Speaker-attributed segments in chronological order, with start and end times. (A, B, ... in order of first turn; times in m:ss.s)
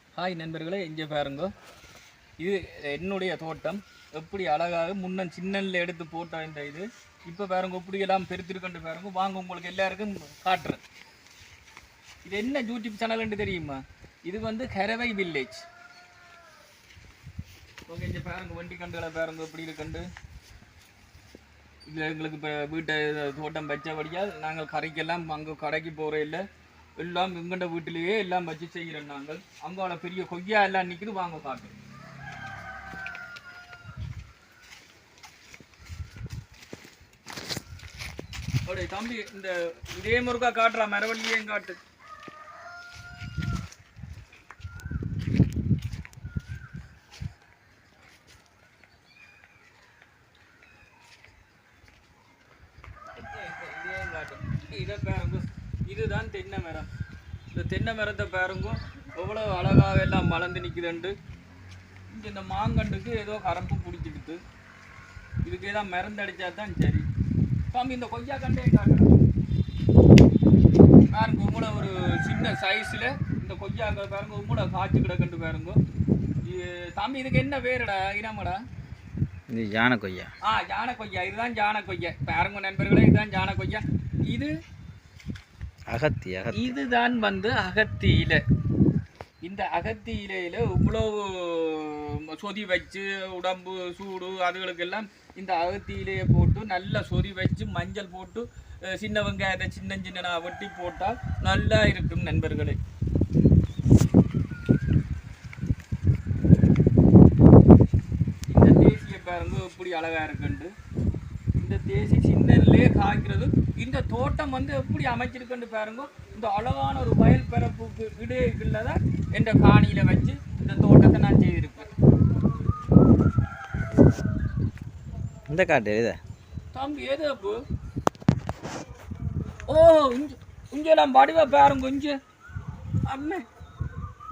0:00.2-0:01.5 A
0:02.4-0:10.8 A
0:12.2-0:15.6 A
0:17.9-0:20.0 A
0:21.8-0:26.4 A
0:27.0-0:31.7 A
0:38.6-0:41.8 A
0:53.1-0:56.9 A
0:57.5-1:01.1 A
1:02.1-1:04.4 A
1:05.4-1:07.0 A
1:07.7-1:09.1 A
1:11.1-1:15.8 A
1:16.4-1:18.6 A
1:19.5-1:20.3 B
1:20.4-1:24.5 A
1:25.9-1:26.8 B
1:26.5-1:28.4 A
1:29.4-1:42.8 A
1:48.5-1:50.7 A
1:51.6-2:01.9 A
2:05.5-2:06.2 B
2:06.7-2:07.6 A
2:09.7-2:12.2 A
2:13.1-2:13.4 A